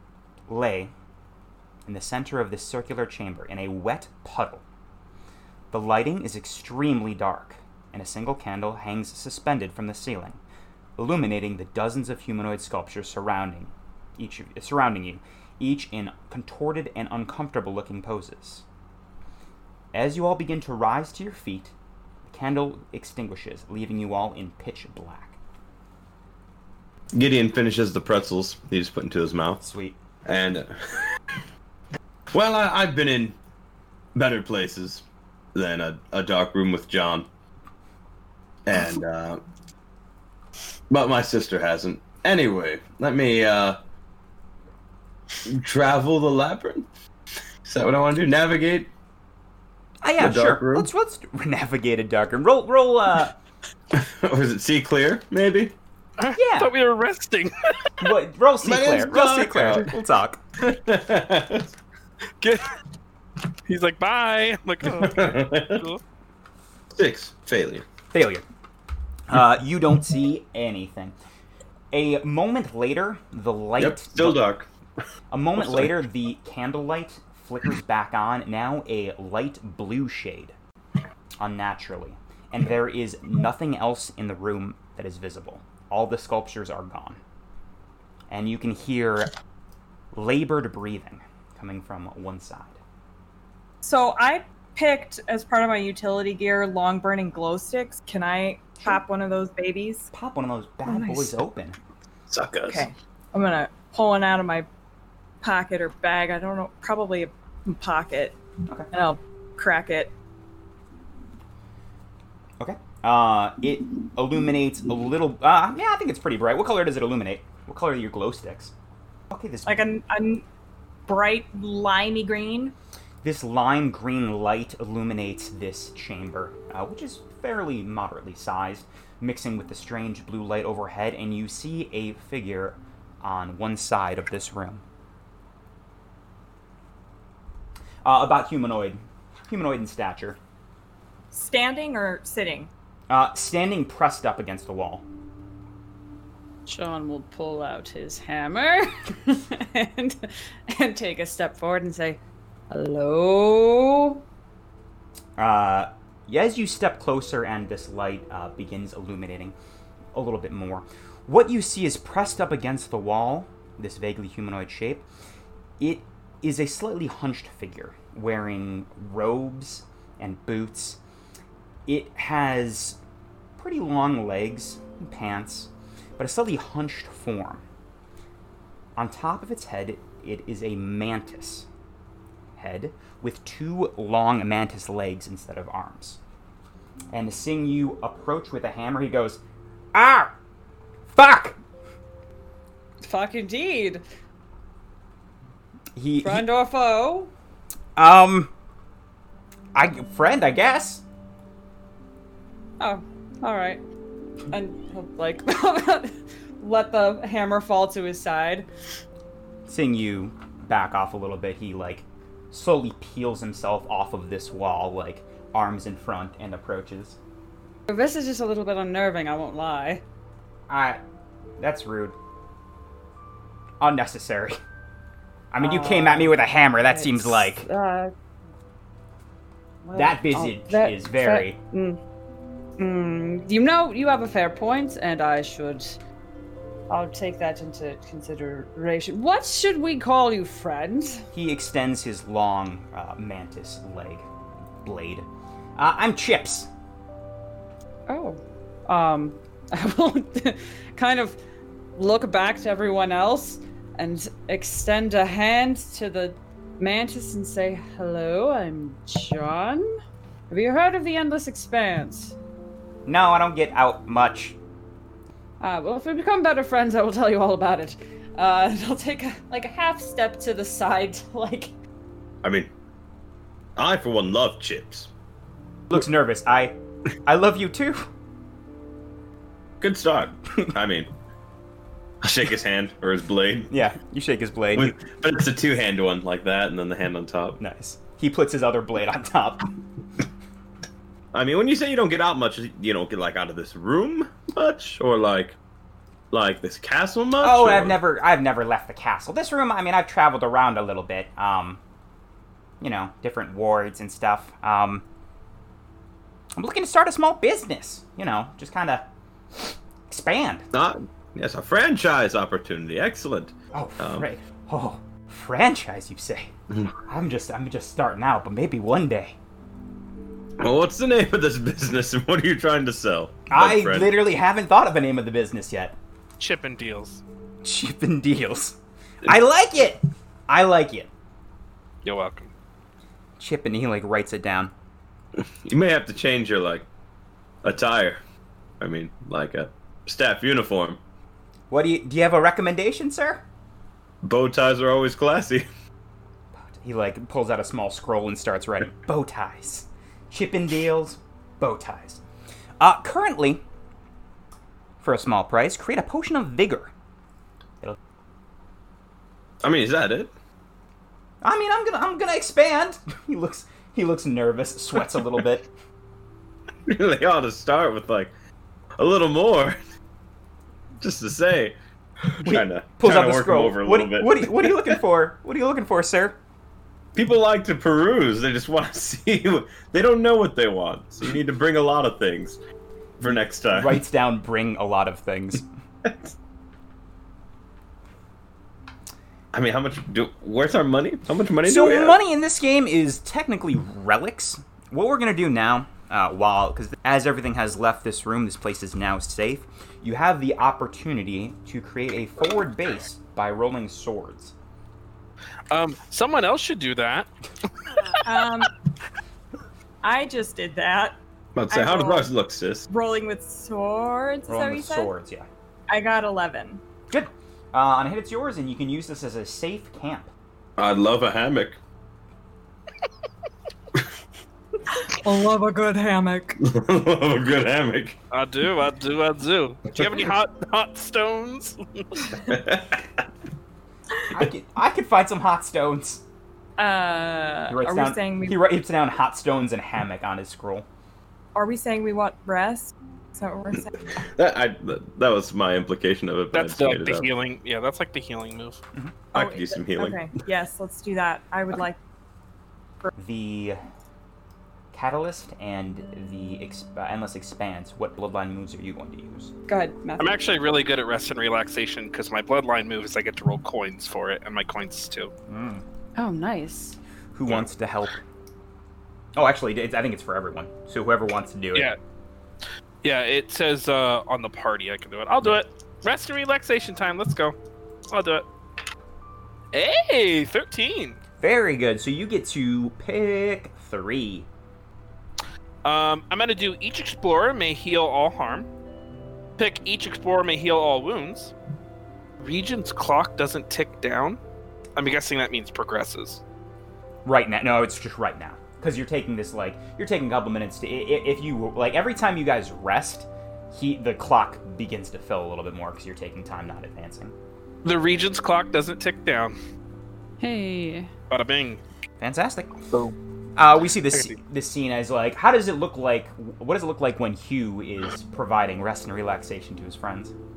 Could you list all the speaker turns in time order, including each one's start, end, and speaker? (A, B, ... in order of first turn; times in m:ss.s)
0:00.5-0:00.9 A
0:01.9-0:04.6 A
0:05.7-0:10.4 A
0:11.0-0:18.6 A
0:19.9-0:21.7 A
0:22.2-0:25.4 A
0:27.1-0:29.6 B
0:29.6-0:30.0 A
0:30.2-0:31.0 B
0:32.3-0:33.4 B
0:34.1-0:37.3 B
0:38.6-0:39.4 B
0:40.9-0:43.8 B
0:45.4-0:46.9 B
0:47.6-0:48.9 B
0:50.0-0:53.3 A
0:50.2-0:50.9 B
0:53.9-0:55.7 B
0:56.2-0:58.0 C
0:56.4-0:56.7 A
0:58.0-1:00.4 A
0:58.6-0:59.9 B
1:00.6-1:01.7 B
1:02.4-1:02.7 C
1:03.6-1:06.0 C
1:04.8-1:05.8 B
1:06.9-1:07.8 B
1:08.1-1:08.4 A
1:09.3-1:11.1 A
1:11.9-1:14.4 A
1:13.8-1:14.7 B
1:15.3-1:20.5 A
1:15.6-1:16.0 B
1:21.4-1:27.2 A
1:28.3-1:29.3 A
1:30.1-1:32.8 A
1:33.8-1:40.1 D
1:40.1-1:41.8 A
1:40.8-1:41.3 D
1:42.3-1:42.9 B
1:42.6-1:44.7 D
1:45.4-1:48.4 D
1:48.9-1:50.1 D
1:52.6-1:58.7 A
1:59.3-1:59.8 A
1:59.6-2:00.4 D
2:01.0-2:02.7 D
2:03.2-2:14.8 A
2:18.0-2:20.4 A
2:21.3-2:22.7 D
2:23.1-2:25.0 A
2:26.6-2:34.2 E
2:35.4-2:39.5 A
2:40.1-2:45.0 A
2:45.8-2:51.0 A
2:51.9-2:53.0 A
2:53.6-2:57.6 A
2:59.0-3:01.7 A
3:02.6-3:06.2 A
3:07.1-3:09.4 A
3:09.9-3:10.3 A
3:11.1-3:11.6 A
3:13.0-3:14.0 E
3:16.0-3:16.5 A
3:16.2-3:17.3 E
3:18.0-3:18.5 A
3:19.7-3:21.0 A
3:22.8-3:23.8 E
3:24.5-3:28.7 E
3:29.7-3:37.2 A
3:37.9-3:40.0 E
3:40.7-3:41.0 A
3:41.6-3:42.2 A
3:43.8-3:44.6 A
3:45.5-3:47.7 A
3:45.6-3:48.1 E
3:49.8-3:52.0 E
3:49.9-3:51.6 A
3:52.8-3:56.0 E
3:56.9-4:01.2 E
4:01.3-4:04.3 A
4:04.8-4:06.7 A
4:08.1-4:11.4 E
4:12.0-4:19.8 E
4:20.5-4:22.3 E
4:23.0-4:24.6 A
4:25.6-4:31.7 E
4:32.4-4:32.7 B
4:33.8-4:35.1 B
4:35.9-4:38.1 A
4:39.8-4:41.1 B
4:42.2-4:43.7 B
4:43.7-4:45.0 A
4:44.8-4:47.6 B
4:47.6-4:49.7 A
4:51.3-4:55.6 B
4:56.3-4:58.0 B
4:57.4-5:01.8 A
5:02.8-5:05.0 A
5:06.6-5:10.6 A
5:10.7-5:14.3 B
5:13.7-5:19.4 A
5:20.6-5:24.2 B
5:23.5-5:26.0 A
5:26.4-5:27.2 C
5:27.6-5:31.1 A
5:32.0-5:32.5 C
5:33.4-5:34.7 A
5:35.4-5:36.9 B
5:37.6-5:38.2 B
5:38.8-5:41.0 B
5:41.7-5:43.4 A
5:44.2-5:45.7 B
5:46.5-5:52.2 A
5:52.8-5:53.6 A
5:55.0-5:56.9 A
5:59.6-6:00.3 B
6:01.4-6:05.7 A
6:06.9-6:08.3 B
6:09.0-6:09.8 B
6:11.0-6:11.8 B
6:12.4-6:15.0 B
6:12.4-6:16.4 A
6:17.1-6:22.6 B
6:23.2-6:24.0 B
6:23.7-6:25.6 A
6:29.5-6:32.2 B
6:31.6-6:44.5 A
6:45.7-6:47.3 C
6:48.2-6:48.7 D
6:50.0-6:51.2 D
6:51.5-6:52.9 B
6:51.7-6:52.3 D
6:52.9-6:55.1 D
6:54.5-6:55.5 A
6:55.9-6:56.8 D
6:57.1-7:00.3 A
7:00.8-7:01.8 B
7:04.9-7:06.6 D
7:06.6-7:08.2 B
7:08.3-7:12.1 C
7:12.4-7:13.2 B
7:14.3-7:16.2 A
7:16.8-7:18.6 D
7:17.7-7:20.8 A
7:21.5-7:24.1 D
7:24.1-7:27.3 B
7:26.5-7:28.8 C
7:29.3-7:30.3 B
7:29.3-7:32.0 D
7:33.2-7:33.8 A
7:34.9-7:39.5 A
7:39.7-7:40.4 E
7:40.2-7:45.3 C
7:45.5-7:45.8 A
7:46.2-7:47.0 E
7:47.3-7:48.2 A
7:49.4-7:51.9 A
7:53.0-7:57.6 C
7:58.1-7:58.4 C
7:59.7-8:01.2 C
8:01.4-8:04.5 A
8:05.8-8:08.7 C
8:09.6-8:11.5 C
8:12.4-8:14.4 C
8:15.0-8:16.4 C
8:17.2-8:27.3 A
8:27.8-8:29.6 C
8:30.4-8:31.1 E
8:31.3-8:31.8 C
8:32.2-8:32.7 A
8:33.6-8:40.3 A
8:34.1-8:34.4 C